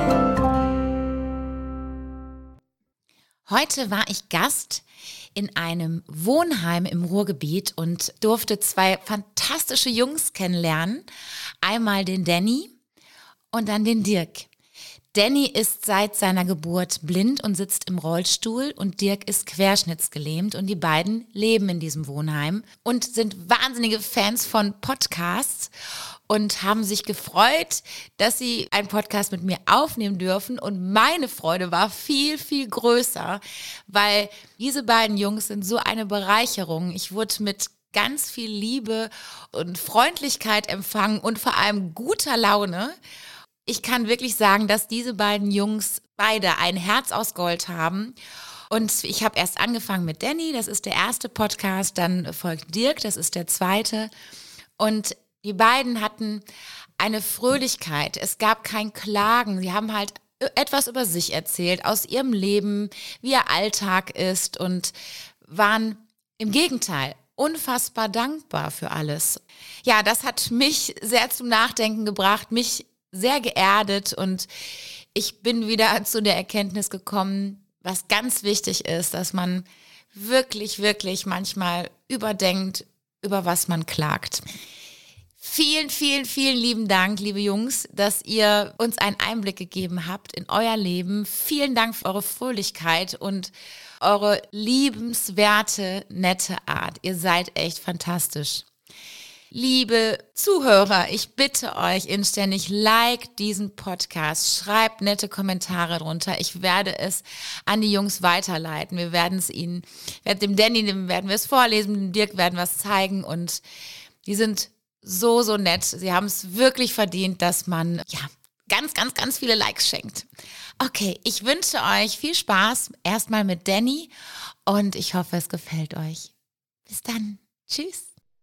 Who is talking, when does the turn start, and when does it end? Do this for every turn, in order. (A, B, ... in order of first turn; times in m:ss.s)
0:03.5-0:04.8 A
0:05.4-0:11.0 A
0:11.6-0:12.7 A
0:13.5-0:14.5 A
0:15.1-0:25.7 A
0:26.3-0:43.0 A
0:43.7-0:48.2 A
0:48.7-0:54.1 A
0:54.8-0:56.4 A
0:57.0-1:04.9 A
1:05.4-1:14.5 A
1:15.2-1:24.4 A
1:25.4-1:38.7 A
1:39.5-1:53.6 A
1:54.2-2:00.3 A
2:00.8-2:04.1 A
2:04.7-2:06.3 A
2:06.9-2:08.1 A